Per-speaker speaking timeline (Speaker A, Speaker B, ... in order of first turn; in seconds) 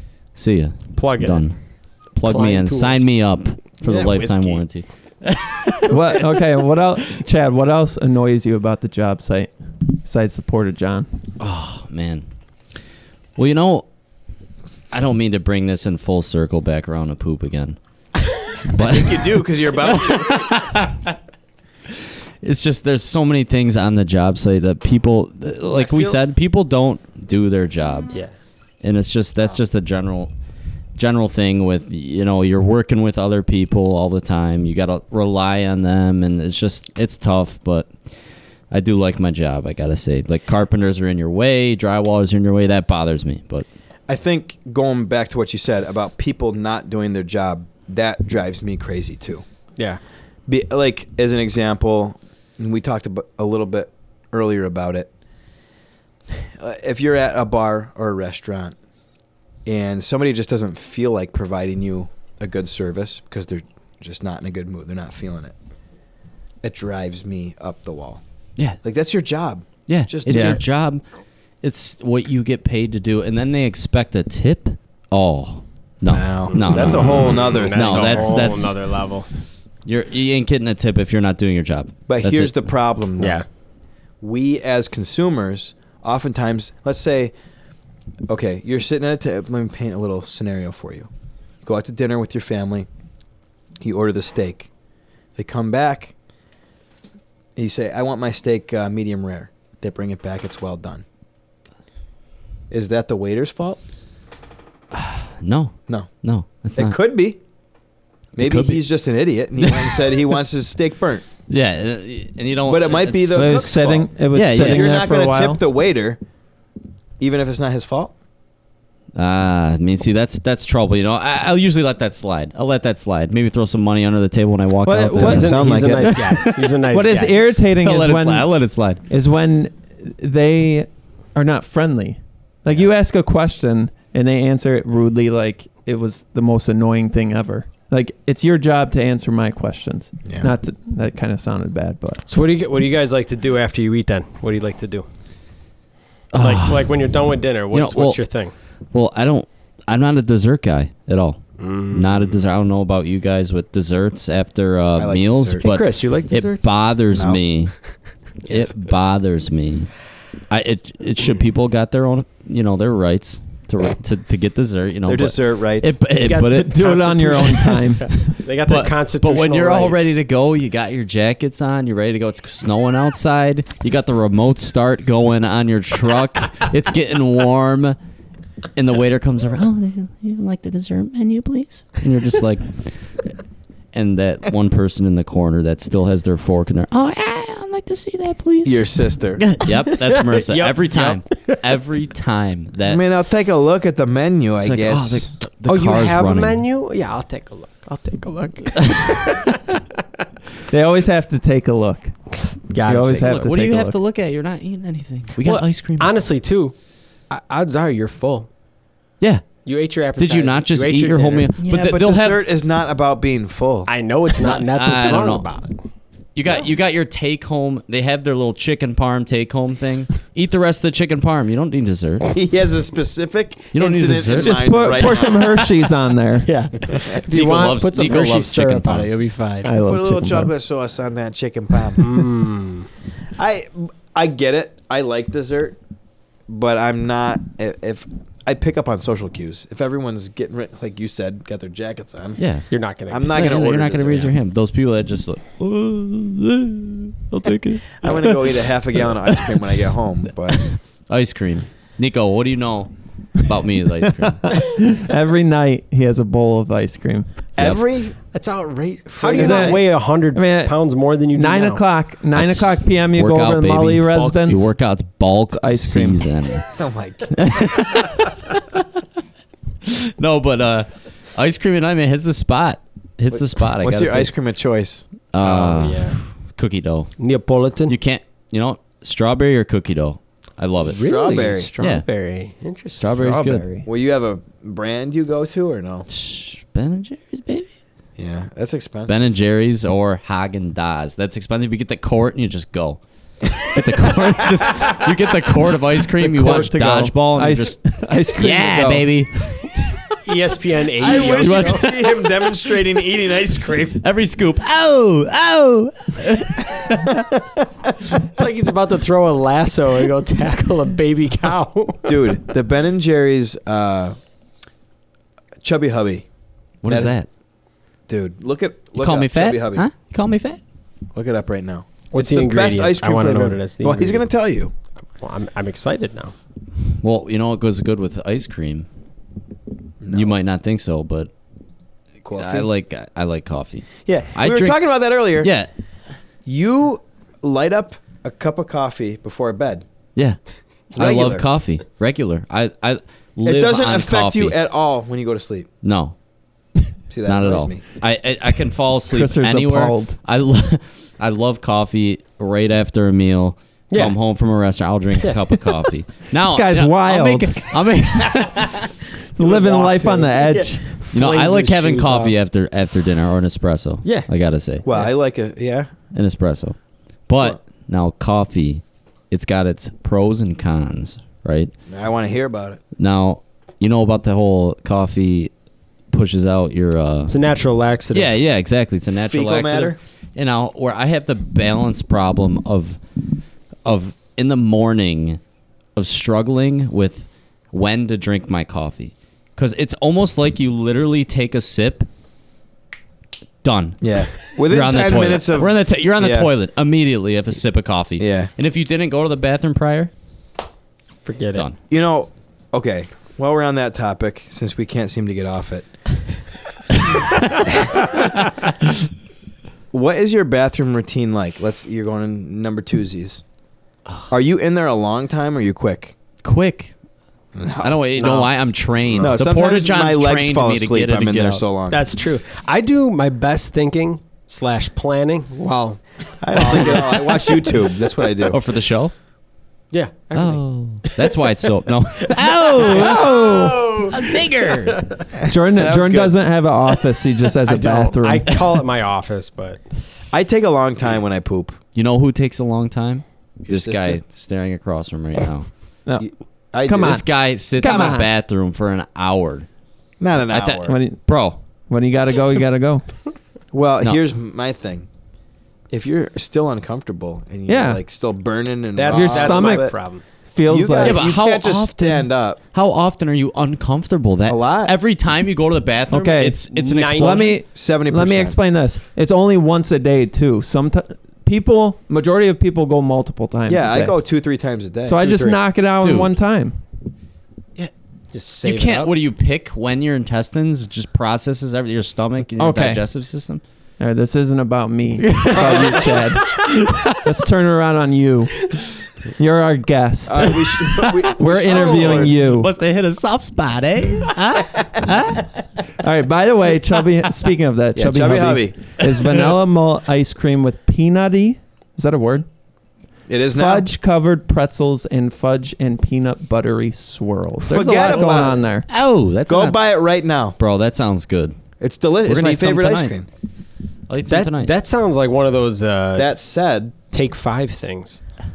Speaker A: 0.3-6.0, 11.4-12.2, 13.4-13.9, 14.9-17.8, 18.6-21.1, 22.4-28.2, 28.8-30.3, 31.0-37.9, 38.7-43.7, 69.9-71.0, 71.6-78.8, 79.9-82.7, 104.9-107.0, 108.4-108.8, 109.6-110.0, 111.5-113.6, 114.3-115.0, 119.2-125.6, 127.8-129.0, 146.3-146.9, 147.7-148.2, 148.9-157.7, 158.5-159.9, 160.5-166.9, 168.7-178.0, 178.8-183.2, 183.9-193.0, 194.6-196.6, 198.9-199.3, 203.1-206.1, 209.2-209.6, 210.2-212.4, 214.4-215.5, 216.4-222.3, 223.7-225.1, 227.2-229.1, 242.4-242.7, 243.3-248.6, 250.5-254.6, 262.4-266.7, 267.3-268.8, 269.9-274.3, 275.3-277.1, 277.9-281.0, 281.8-282.1, 283.0-283.7, 286.1-287.7, 289.1-299.7, 301.1-302.1, 304.0-307.3, 316.8-317.3, 319.0-320.6, 327.0-328.9, 330.1-331.3, 332.4-334.8, 335.4-335.7, 340.9-344.6, 345.8-346.1, 347.2-358.9, 361.1-364.9, 366.1-371.7, 373.0-375.5, 376.1-377.4, 378.1-383.0, 383.9-385.4, 386.0-392.1, 393.6-400.1, 416.4-416.9, 417.8-421.6, 428.5-429.1, 430.3-435.0, 441.9-445.7, 447.0-449.7, 450.5-451.6, 461.0-467.6, 476.0-476.3, 478.6-483.6, 485.3-486.2, 486.9-487.1, 491.7-495.5, 508.9-509.8, 510.6-511.6, 512.2-513.2, 514.1-514.7
Speaker B: 0.9-1.5, 2.2-3.1, 25.9-26.1, 76.5-79.3, 83.2-83.5, 125.2-127.4, 142.3-145.1, 146.4-148.5, 151.6-152.4, 155.6-156.7, 166.1-170.0, 189.9-191.6, 195.7-199.5, 202.7-203.4, 205.4-206.7, 207.3-208.5, 209.7-211.5, 213.9-215.8, 226.4-229.7, 232.0-232.9, 242.7-243.4, 258.3-261.8, 275.4-276.2, 277.2-277.9, 280.9-283.3, 300.2-302.0, 308.2-312.4, 322.1-324.3, 325.2-326.3, 353.9-354.2, 355.2-355.6, 359.4-362.4, 364.0-364.3, 377.3-378.4, 401.2-401.7, 418.2-418.5, 421.9-427.9, 429.9-431.4, 432.7-435.3, 437.6-439.8, 458.9-460.2, 466.7-467.6, 478.3-479.1, 508.0-508.4, 514.3-516.3, 517.1-518.2
Speaker C: 3.8-4.6, 18.7-20.5, 44.1-49.4, 50.5-55.1, 56.6-58.8, 59.6-65.5, 66.6-68.2, 68.8-70.6, 76.1-78.5, 82.1-83.5, 84.2-87.3, 88.3-91.1, 91.6-92.9, 93.8-94.7, 95.4-96.1, 97.6-101.0, 102.7-103.8, 106.8-107.4, 108.4-111.2, 112.7-116.2, 117.2-118.1, 125.2-126.2, 140.3-140.5, 155.0-155.7, 157.1-157.4, 165.1-165.9, 188.6-189.4, 192.8-195.3, 211.6-213.9, 222.3-225.8, 229.8-232.2, 233.4-235.8, 236.5-242.4, 243.1-244.3, 248.0-250.7, 257.6-258.2, 259.2-259.8, 266.8-267.9, 273.4-275.1, 281.0-281.7, 283.9-286.1, 288.2-289.2, 294.6-295.1, 301.0-304.0, 312.1-314.2, 315.6-316.2, 316.9-317.2, 318.1-319.9, 321.1-324.7, 330.0-330.4, 332.2-332.7, 334.1-335.5, 336.4-339.9, 341.0-341.5, 343.4-345.7, 347.1-347.8, 359.4-360.7, 364.9-365.9, 371.9-372.8, 379.2-380.0, 394.0-396.5, 398.2-398.5, 401.9-405.9, 407.4-408.1, 409.9-413.4, 414.3-416.1, 417.6-418.0, 419.2-422.0, 426.4-428.6, 435.3-436.4, 440.3-441.8, 443.7-444.2, 446.2-447.2, 450.2-451.0, 453.7-455.1, 455.9-460.0, 460.7-462.6, 464.5-464.9, 467.6-468.6, 473.7-475.6, 490.3-492.4, 497.9-499.1, 503.3-503.9, 507.6-508.6, 509.5-510.6, 511.8-513.3, 516.2-517.0
Speaker D: 5.9-11.1, 70.3-70.6, 113.3-115.6, 124.8-128.5, 129.1-142.2, 166.5-168.4, 200.7-202.2, 202.8-204.0, 224.3-226.5, 229.6-230.5, 254.4-257.3, 259.3-260.8, 261.3-264.7, 265.5-266.3, 283.2-283.9, 296.1-299.2, 349.1-350.2, 356.4-357.8, 359.4-360.8, 432.7-433.9, 435.4-438.8, 446.8-448.3, 450.9-451.2, 451.9-453.1, 457.7-458.0, 459.1-459.9, 460.5-461.3, 466.1-474.2, 475.1-476.8, 482.6-483.0, 484.0-488.7, 489.4-492.7, 496.0-502.5, 503.5-508.9